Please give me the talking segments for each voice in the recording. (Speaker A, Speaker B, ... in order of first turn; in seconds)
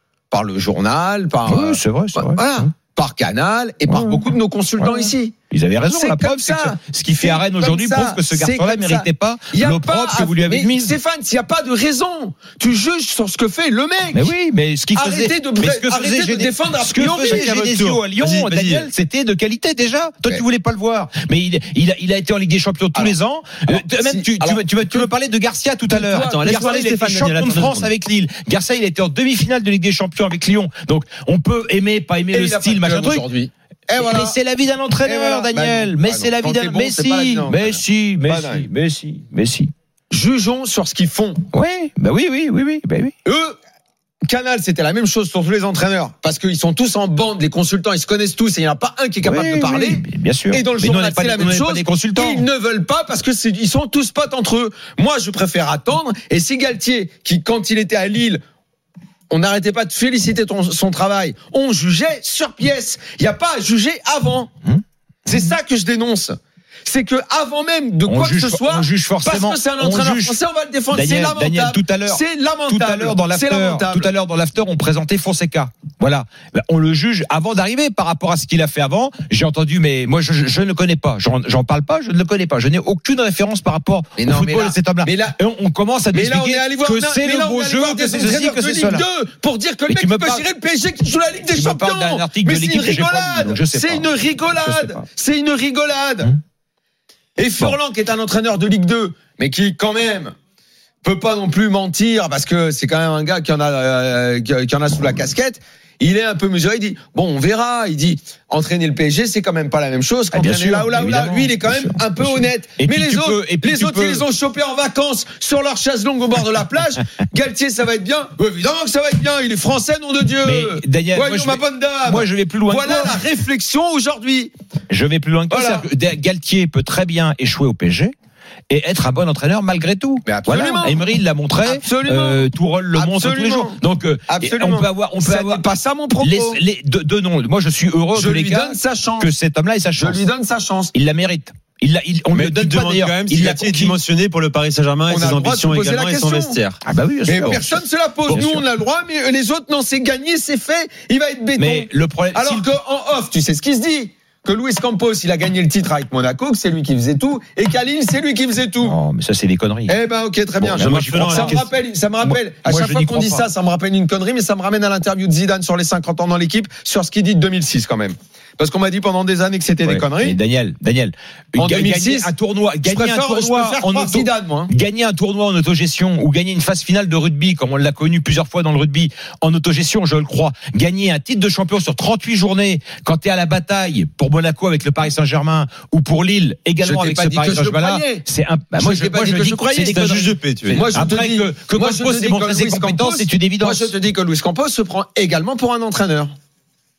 Speaker A: 0.3-5.3, 5.9-14.3, 14.9-17.5, 22.9-25.1, 25.9-27.8, 32.3-34.4, 35.0-38.7, 40.1-41.4, 43.2-43.6, 44.3-58.4, 59.3-64.5, 65.3-74.1, 84.2-85.4, 86.1-96.3, 97.4-100.3, 101.0-124.5, 125.5-125.9, 130.2-136.6, 138.1-139.3, 139.9-140.9, 145.1-146.6, 147.2-158.9, 159.9-170.4, 171.6-174.7, 186.8-190.1, 190.7-196.3
Speaker B: 1.4-2.7, 3.9-10.9, 14.1-33.3, 33.9-39.7, 41.5-43.1, 49.2-52.5, 64.7-65.5, 68.0-70.4, 70.9-89.0, 89.9-90.5, 91.5-95.0, 110.3-114.2, 120.4-123.2, 124.9-128.1, 128.7-135.6, 136.2-140.3, 140.9-144.0, 146.8-147.8, 148.3-148.7, 151.6-152.7, 158.8-160.0, 160.6-161.7, 162.2-163.5, 169.8-193.9
Speaker C: 17.1-18.9, 26.2-27.8, 142.3-146.8, 160.7-161.6, 189.8-190.9